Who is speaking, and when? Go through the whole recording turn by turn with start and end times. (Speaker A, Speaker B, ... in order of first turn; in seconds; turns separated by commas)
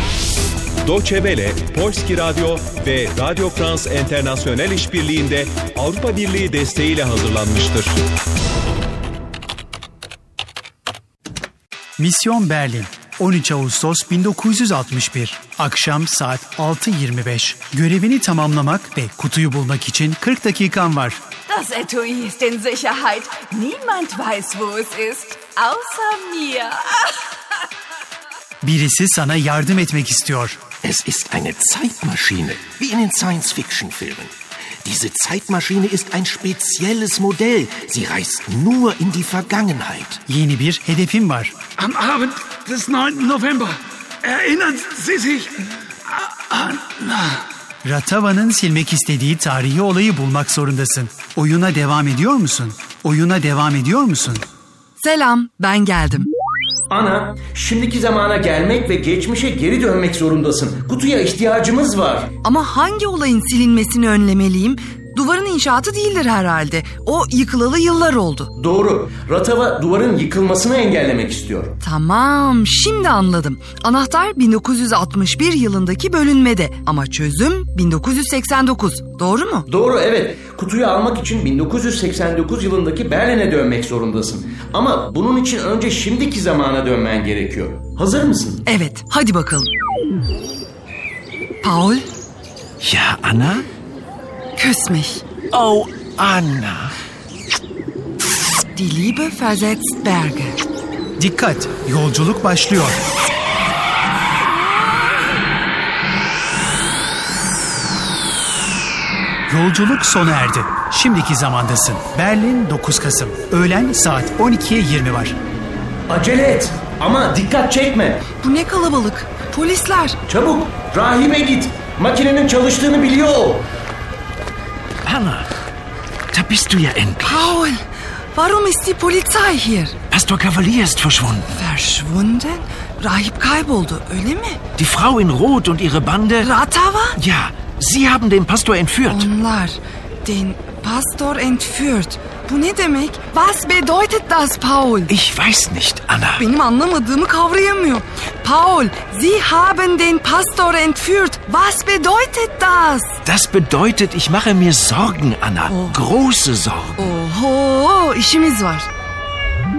Speaker A: 0.9-8.0, Speaker B: 12.0-21.2, Speaker C: 21.5-27.1, Speaker B: 28.6-30.6, Speaker D: 30.8-34.3, Speaker D: 34.8-40.2, Speaker B: 40.3-41.6, Speaker E: 41.8-45.7, Speaker E: 46.3-47.4, Speaker B: 47.8-54.4, Speaker C: 55.0-56.3, Speaker F: 56.9-62.3, Speaker C: 62.4-68.5, Speaker F: 68.6-71.8, Speaker C: 71.8-79.7, Speaker F: 79.7-88.6, Speaker C: 88.7-89.7, Speaker C: 91.6-92.1, Speaker D: 92.8-93.7, Speaker C: 94.6-95.2, Speaker D: 95.5-96.9, Speaker C: 98.8-100.6, Speaker B: 101.2-103.0, Speaker B: 109.5-115.4, Speaker F: 116.1-118.2, Speaker C: 118.4-120.2, Speaker F: 120.3-123.7, Speaker D: 125.0-125.5, Speaker D: 126.3-127.5, Speaker C: 127.2-127.8, Speaker C: 128.3-130.0, Speaker D: 130.1-131.5, Speaker C: 131.5-134.6, Speaker D: 134.8-136.5, Speaker C: 136.4-137.2, Speaker D: 137.2-139.3, Speaker C: 139.1-145.1, Speaker D: 145.1-146.4, Speaker C: 146.4-153.2, Speaker D: 153.2-157.0, Speaker C: 155.7-156.0, Speaker C: 157.0-158.9